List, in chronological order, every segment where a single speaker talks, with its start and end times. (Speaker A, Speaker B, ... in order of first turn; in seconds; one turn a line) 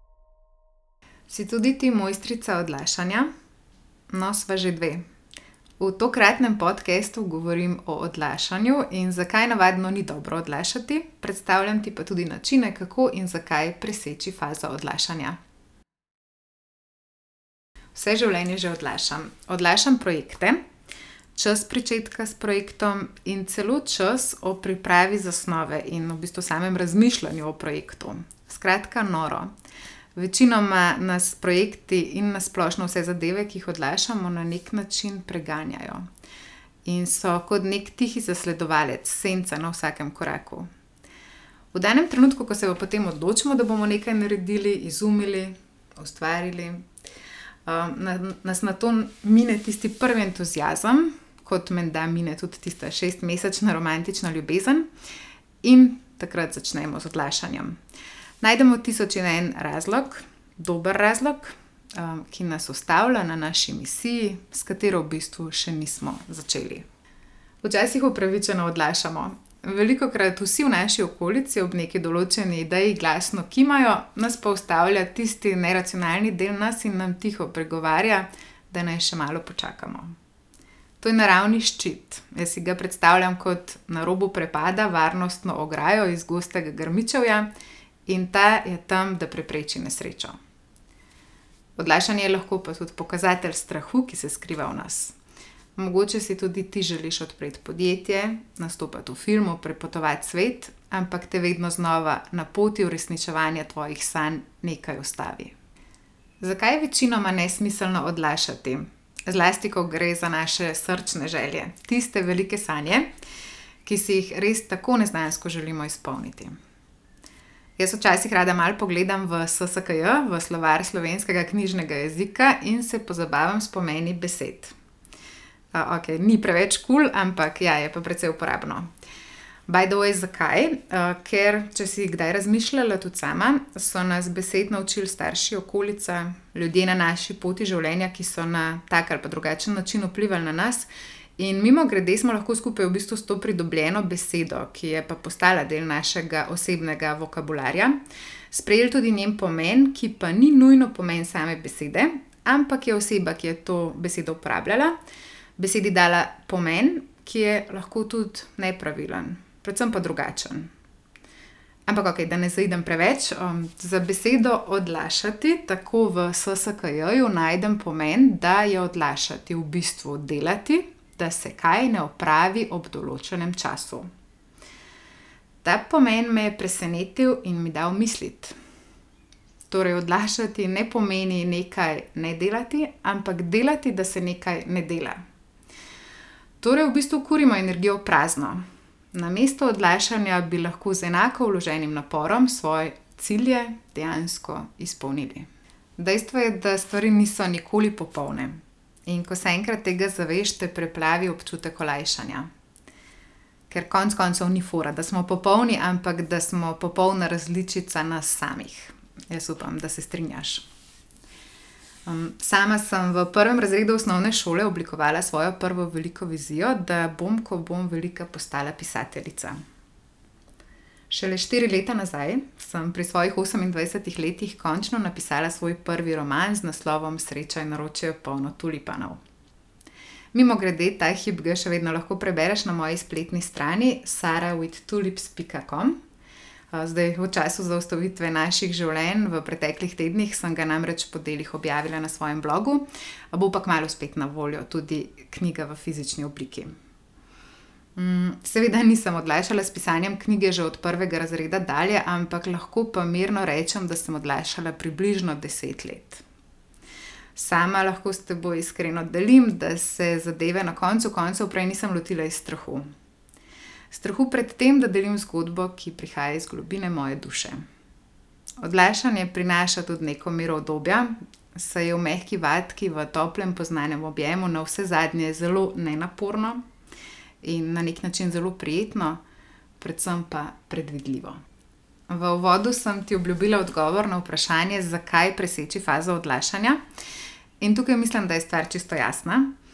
Speaker A: 1.3-3.3
Speaker A: 4.1-5.0
Speaker A: 5.8-15.4
Speaker A: 17.9-20.6
Speaker A: 21.4-29.5
Speaker A: 30.2-36.1
Speaker A: 36.9-40.7
Speaker A: 41.7-46.9
Speaker A: 47.7-54.9
Speaker A: 55.6-57.8
Speaker A: 58.4-66.8
Speaker A: 67.6-80.1
Speaker A: 81.0-87.5
Speaker A: 88.1-90.3
Speaker A: 91.8-95.2
Speaker A: 95.8-105.5
Speaker A: 106.4-113.1
Speaker A: 113.8-116.5
Speaker A: 117.8-124.7
Speaker A: 125.7-128.9
Speaker A: 129.7-148.0
Speaker A: 148.5-154.9
Speaker A: 155.6-160.7
Speaker A: 161.9-174.1
Speaker A: 175.6-178.6
Speaker A: 179.7-185.2
Speaker A: 186.6-195.5
Speaker A: 196.0-202.5
Speaker A: 203.7-210.7
Speaker A: 212.1-219.6
Speaker A: 221.1-229.2
Speaker A: 230.3-236.0
Speaker A: 236.7-246.7
Speaker A: 248.0-256.2
Speaker A: 257.4-262.9
Speaker A: 263.9-267.6
Speaker A: 268.6-276.6
Speaker A: 277.4-279.2
Speaker A: 279.8-281.4
Speaker A: 282.1-286.8
Speaker A: 287.6-289.5